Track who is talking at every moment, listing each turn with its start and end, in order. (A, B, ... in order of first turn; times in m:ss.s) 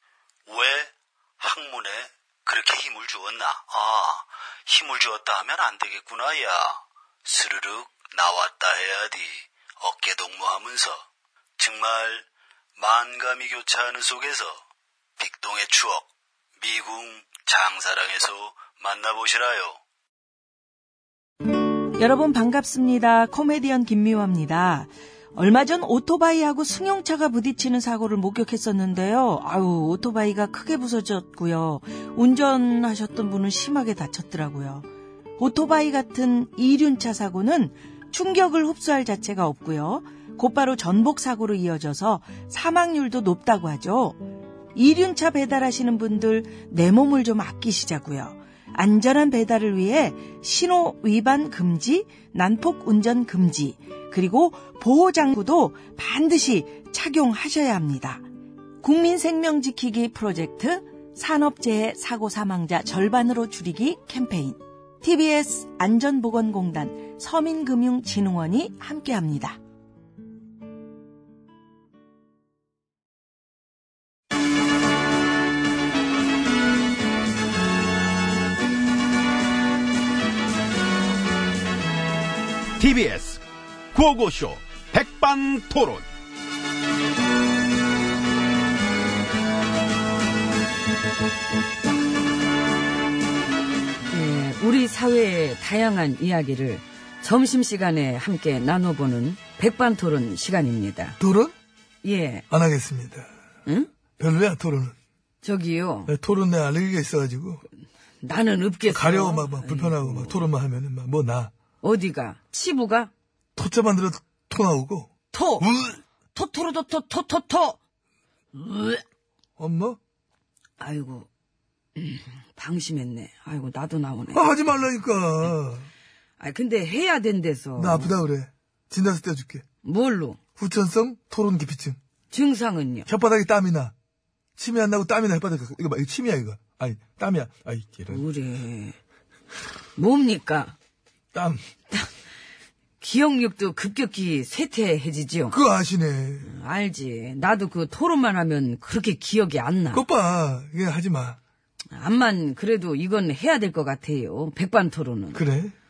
0:00.5-0:11.0 A
0:11.6-0:12.2 A
0:12.8-0:14.6 A
0:15.2-0:16.1 A
0:16.6-0:19.8 A
0:22.0-0:34.9 B
0:35.4-0:44.2 B
0:44.7-0:58.2 B
0:58.8-1:09.6 B
1:22.8-1:26.1 C
1:34.1-1:41.2 D
1:41.2-1:41.5 E
1:42.0-1:42.4 D
1:42.5-1:43.3 E
1:44.2-1:44.9 E
1:45.4-1:46.1 D
1:46.1-1:47.6 E
1:48.2-1:50.5 D
1:48.9-1:51.5 E
1:51.8-1:53.1 D
1:53.6-1:56.0 E
1:55.3-1:55.7 D
1:56.3-1:57.8 D
1:58.5-1:59.0 D
1:59.6-2:00.0 E
2:00.8-2:01.3 D
2:02.0-2:04.4 D
2:04.3-2:05.9 E
2:06.4-2:08.2 D
2:07.8-2:09.6 E
2:09.8-2:10.4 D
2:10.6-2:12.0 E
2:12.3-2:13.1 D
2:13.1-2:13.9 E
2:14.6-2:18.2 E
2:18.1-2:19.0 D
2:20.0-2:20.7 D
2:21.3-2:21.6 E
2:23.0-2:25.6 D
2:25.5-2:26.5 E
2:26.4-2:30.0 D
2:29.9-2:31.4 E
2:31.9-2:35.4 D
2:35.3-2:35.7 E